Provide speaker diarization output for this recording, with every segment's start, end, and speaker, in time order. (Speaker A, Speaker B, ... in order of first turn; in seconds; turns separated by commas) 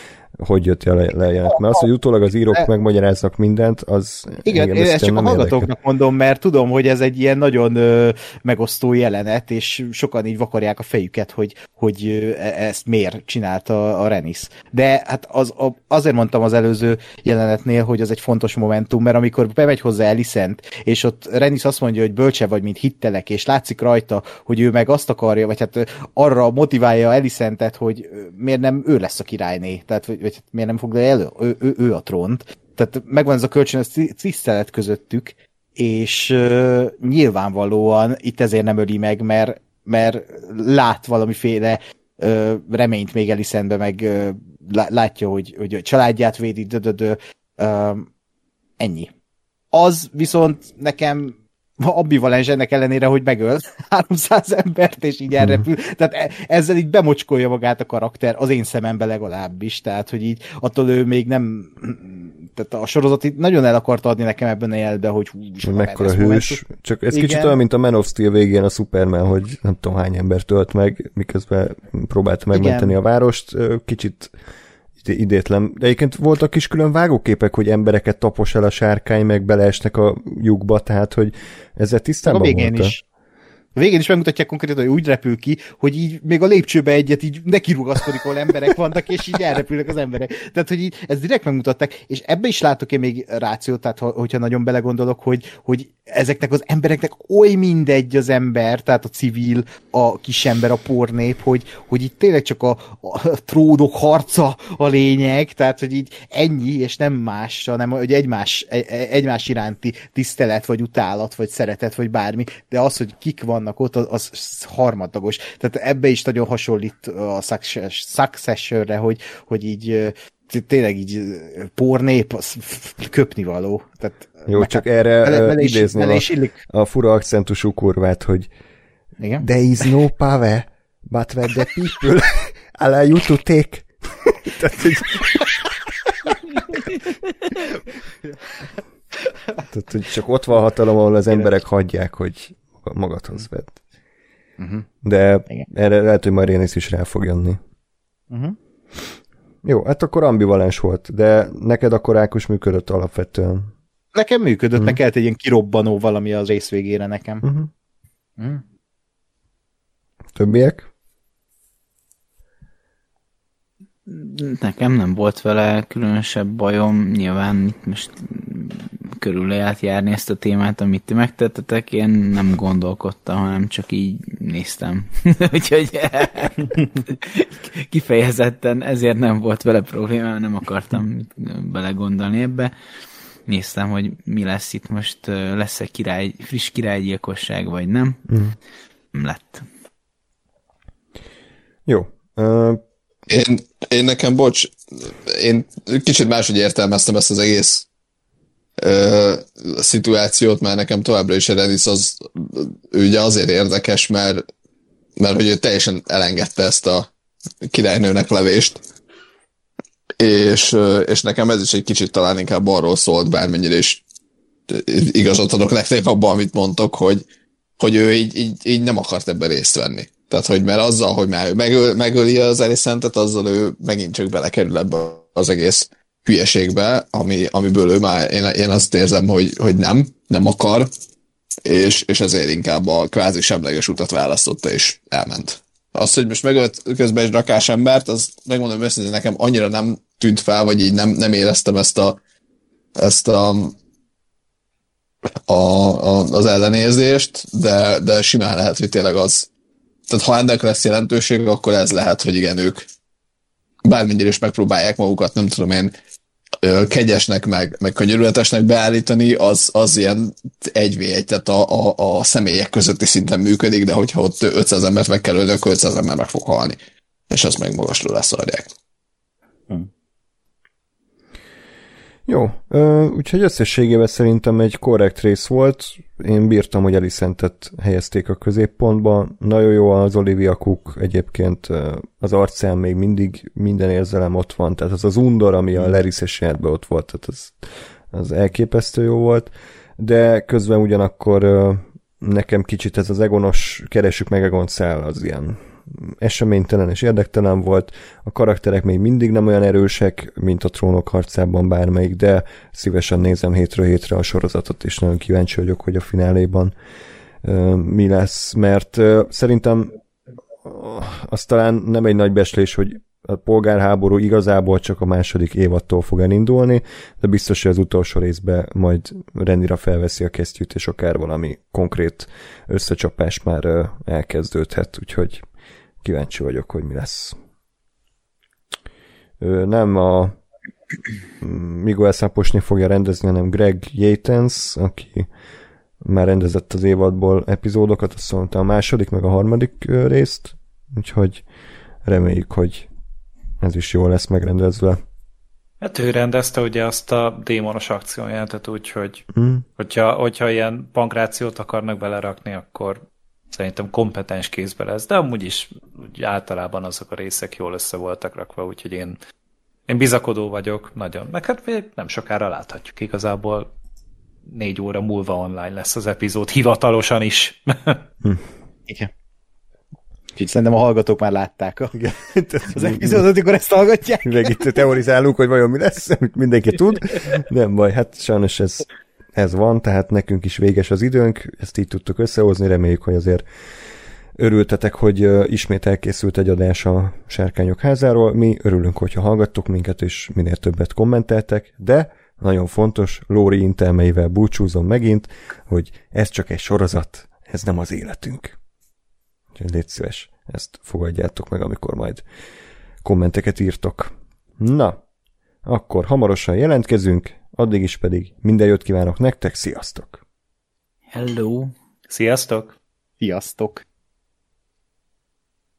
Speaker A: 0.4-5.7, Speaker B: 4.4-48.1, Speaker B: 48.8-49.1, Speaker B: 49.7-66.6, Speaker A: 55.4-55.6, Speaker A: 65.6-74.3, Speaker B: 67.1-67.5, Speaker B: 72.5-72.9, Speaker A: 75.0-82.9, Speaker B: 82.2-83.0, Speaker B: 83.8-126.6, Speaker A: 124.5-128.5, Speaker B: 129.2-129.4, Speaker A: 129.4-135.4, Speaker A: 139.7-143.8, Speaker B: 144.6-144.9, Speaker A: 145.0-147.6, Speaker B: 148.3-148.6, Speaker A: 149.6-153.7, Speaker B: 154.1-157.4, Speaker A: 157.4-157.7, Speaker B: 158.4-158.6, Speaker A: 160.3-160.9, Speaker C: 164.1-182.7, Speaker C: 183.5-188.2, Speaker A: 188.3-188.6, Speaker C: 189.1-189.6, Speaker A: 191.9-192.8, Speaker D: 193.3-197.9, Speaker D: 198.8-204.4, Speaker D: 205.2-207.1, Speaker D: 207.6-208.8, Speaker D: 210.2-214.0, Speaker D: 214.7-217.2, Speaker D: 217.8-230.9, Speaker D: 231.6-242.2, Speaker D: 242.9-243.7, Speaker D: 245.5-249.5, Speaker D: 250.1-252.8, Speaker D: 253.8-255.9, Speaker D: 256.6-266.8, Speaker D: 267.3-268.7, Speaker A: 272.3-306.7, Speaker A: 307.4-309.9, Speaker A: 310.6-325.4, Speaker A: 326.0-327.4, Speaker A: 329.4-330.4, Speaker A: 331.4-335.3, Speaker A: 336.0-341.4, Speaker A: 342.0-342.9, Speaker A: 343.6-345.0, Speaker E: 345.8-349.2, Speaker A: 349.3-349.6, Speaker E: 349.8-353.0, Speaker E: 353.5-359.2, Speaker E: 359.9-363.7, Speaker E: 364.5-368.0, Speaker B: 370.4-372.0, Speaker A: 371.9-373.2, Speaker B: 372.7-374.4, Speaker A: 374.2-383.4, Speaker A: 384.4-398.6, Speaker A: 399.5-402.2, Speaker A: 403.0-405.0, Speaker A: 405.6-410.2, Speaker C: 411.1-411.7, Speaker E: 412.1-412.7, Speaker B: 413.2-413.8